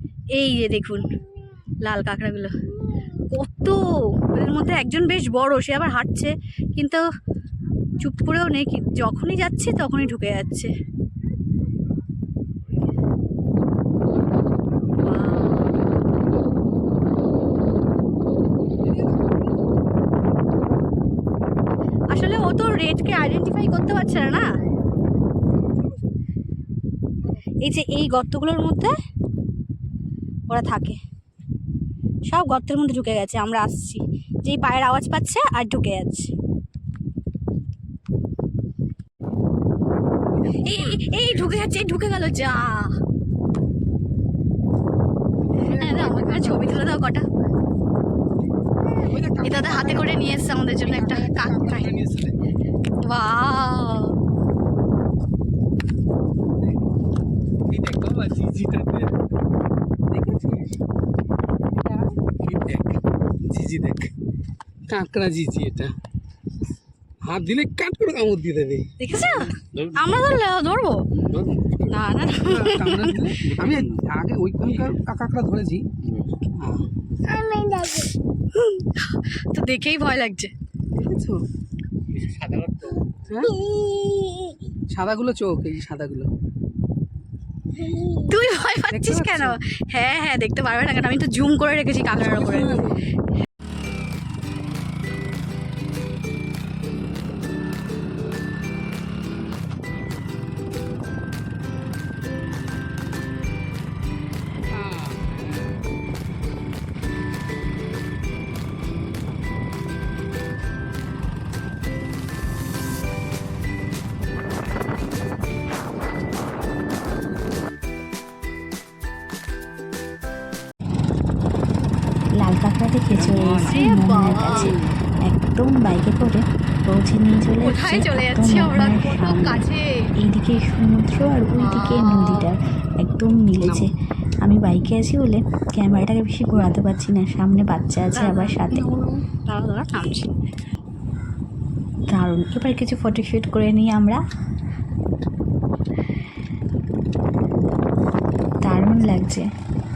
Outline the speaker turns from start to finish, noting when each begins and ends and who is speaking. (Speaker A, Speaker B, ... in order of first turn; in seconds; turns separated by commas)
Speaker A: 0.4-1.1, Speaker A: 1.8-2.5, Speaker A: 3.1-7.0, Speaker A: 8.0-10.7, Speaker A: 15.0-15.8, Speaker B: 18.8-19.7, Speaker A: 22.1-24.5, Speaker A: 27.6-28.9, Speaker A: 30.5-31.0, Speaker A: 32.3-36.3, Speaker B: 40.3-41.6, Speaker A: 40.5-43.0, Speaker B: 45.5-46.8, Speaker A: 45.6-47.3, Speaker B: 49.0-52.4, Speaker A: 49.4-52.0, Speaker A: 53.0-54.1, Speaker B: 57.7-59.1, Speaker B: 60.1-60.8, Speaker B: 61.7-64.1, Speaker B: 64.9-66.0, Speaker B: 67.2-70.0, Speaker A: 69.0-71.1, Speaker B: 71.2-71.9, Speaker A: 71.9-73.3, Speaker B: 72.4-76.9, Speaker A: 77.3-80.5, Speaker B: 81.0-81.5, Speaker B: 82.4-82.7, Speaker B: 83.3-83.6, Speaker B: 84.9-86.3, Speaker A: 88.0-92.9, Speaker B: 88.9-89.6, Speaker B: 92.2-93.1, Speaker B: 104.7-105.4, Speaker C: 122.4-129.6, Speaker B: 123.2-123.8, Speaker A: 123.7-124.8, Speaker B: 124.5-124.9, Speaker A: 127.6-130.1, Speaker C: 130.2-138.9, Speaker A: 131.6-132.5, Speaker B: 133.6-133.9, Speaker A: 138.1-140.3, Speaker C: 142.1-144.2, Speaker C: 148.6-149.5